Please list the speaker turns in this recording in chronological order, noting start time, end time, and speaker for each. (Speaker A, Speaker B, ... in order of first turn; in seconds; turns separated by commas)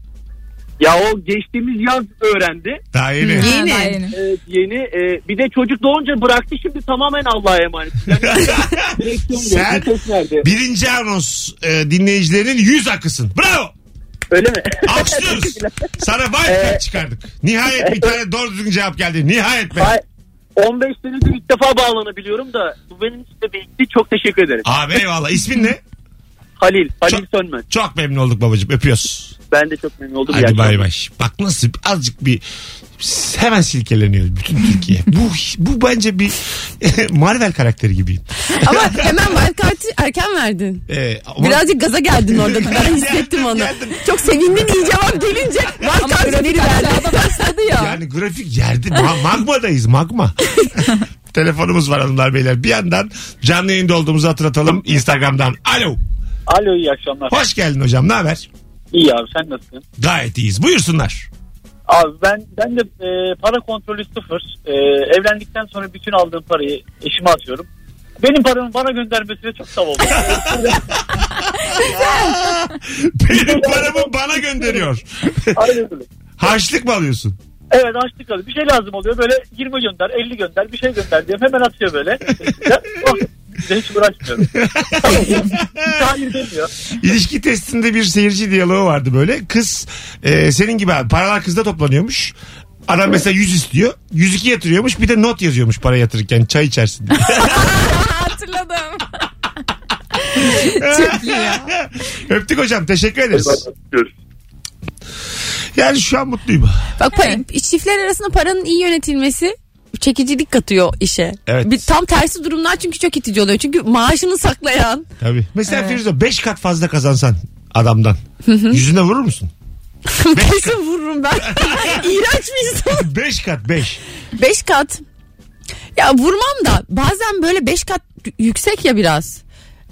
Speaker A: 0.8-2.8, Speaker B: 2.9-3.5, Speaker C: 3.2-4.1, Speaker D: 3.3-4.0, Speaker A: 4.1-10.5, Speaker B: 8.2-9.9, Speaker B: 10.4-13.7, Speaker A: 14.3-15.9, Speaker B: 14.8-19.9, Speaker A: 16.4-16.8, Speaker A: 17.8-18.1, Speaker A: 19.8-20.0, Speaker A: 20.6-24.7, Speaker B: 24.6-25.8, Speaker A: 26.6-27.7, Speaker B: 27.1-29.4, Speaker A: 29.5-30.9, Speaker B: 30.3-32.4, Speaker B: 33.0-39.1, Speaker D: 38.5-40.9, Speaker B: 40.9-41.7, Speaker D: 41.4-47.5, Speaker B: 42.3-44.9, Speaker C: 46.0-48.0, Speaker B: 47.7-56.0, Speaker A: 56.5-57.4, Speaker B: 57.3-58.5, Speaker A: 58.9-59.8, Speaker B: 60.0-61.3, Speaker A: 61.9-67.7, Speaker A: 68.2-70.8, Speaker B: 71.7-75.5, Speaker A: 73.3-74.1, Speaker A: 75.5-76.0, Speaker B: 76.4-77.4, Speaker A: 77.7-86.7, Speaker B: 84.5-86.1, Speaker B: 87.0-92.3, Speaker B: 92.9-97.8, Speaker C: 97.2-99.1, Speaker C: 100.3-101.7, Speaker B: 100.5-103.6, Speaker B: 105.8-106.9, Speaker D: 107.0-115.1, Speaker C: 107.2-107.4, Speaker B: 111.5-111.8, Speaker B: 115.2-119.5, Speaker C: 115.7-116.0, Speaker D: 118.5-118.8, Speaker D: 120.1-123.1, Speaker B: 120.3-120.8, Speaker B: 121.4-122.1, Speaker B: 122.9-124.0, Speaker D: 124.4-125.0, Speaker D: 126.0-129.4